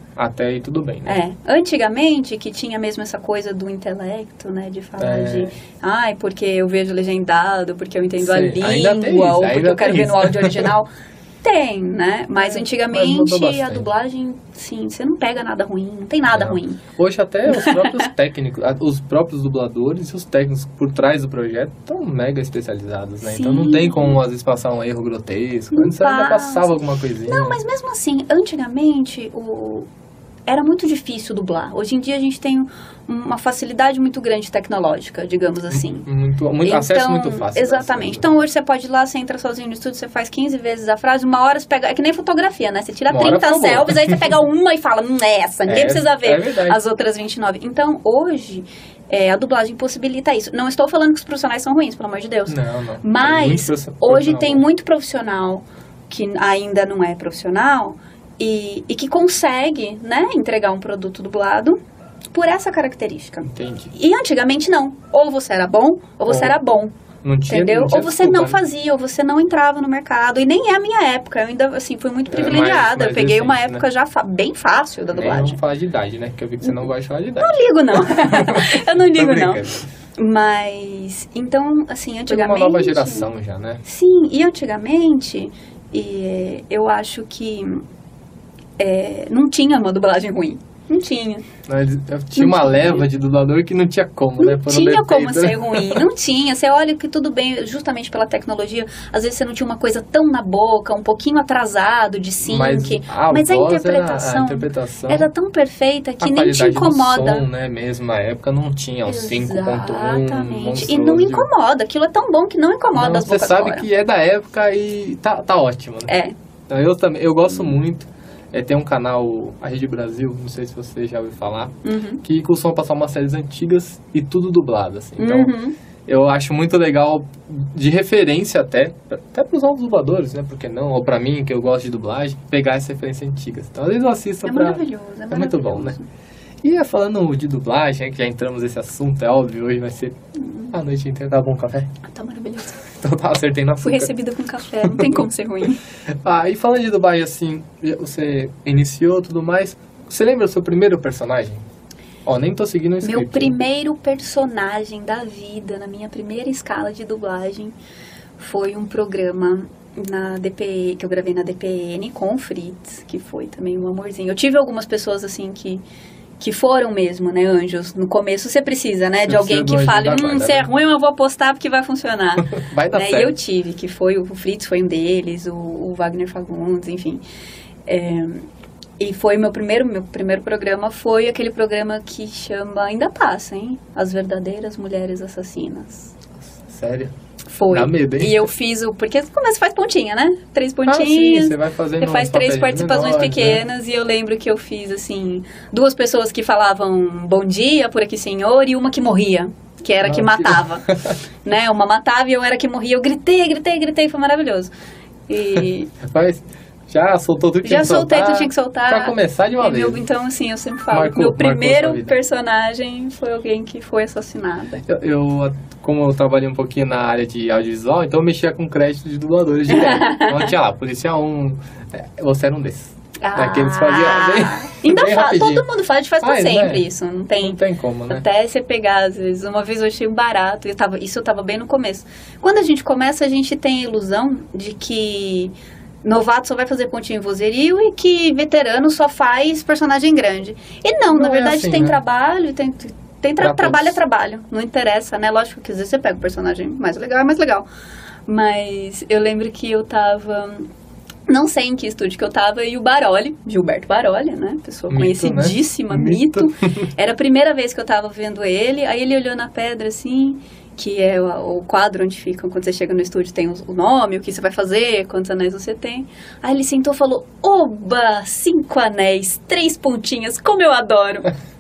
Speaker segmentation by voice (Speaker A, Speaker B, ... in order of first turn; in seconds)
Speaker A: 0.2-1.2, 5.0-5.5, 8.2-10.7, 12.4-13.9, 16.3-27.6, 35.7-38.3, 43.1-44.3, 45.7-46.8, 52.5-54.6, 63.4-63.9, 66.3-66.5, 67.2-68.6, 72.3-73.8, 75.1-79.9, 82.3-83.8, 91.7-96.1, 102.4-105.3, 106.2-111.5, 112.9-116.1, 116.7-125.5, 126.1-136.0, 136.6-140.2, 140.7-141.9, 142.9-144.1, 144.8-145.2, 146.2-151.6, 152.3-153.6, 169.2-170.7, 172.4-173.4, 186.4-187.1, 187.7-188.5, 190.9-193.6, 200.0-201.2, 205.6-210.0, 210.9-212.2, 214.9-225.7, 226.2-228.2, 241.1-242.0, 243.4-244.0, 254.9-256.9
Speaker B: 1.1-10.9, 11.4-16.8, 17.5-18.1, 23.2-24.2, 25.7-29.9, 30.5-36.1, 36.6-61.8, 62.3-66.9, 67.5-75.6, 77.4-79.6, 80.2-83.3, 83.8-87.9, 88.8-91.5, 92.3-93.0, 94.4-107.5, 109.1-113.9, 116.1-116.3, 121.8-122.2, 125.2-125.7, 134.4-136.1, 140.3-140.8, 142.0-142.8, 143.8-145.8, 153.0-157.8, 158.4-165.8, 166.4-177.2, 177.9-178.5, 179.0-186.1, 187.5-200.9, 201.4-204.7, 205.3-205.9, 207.6-214.8, 219.7-220.5, 223.2-235.5, 236.0-247.7, 248.3-250.7, 251.3-271.3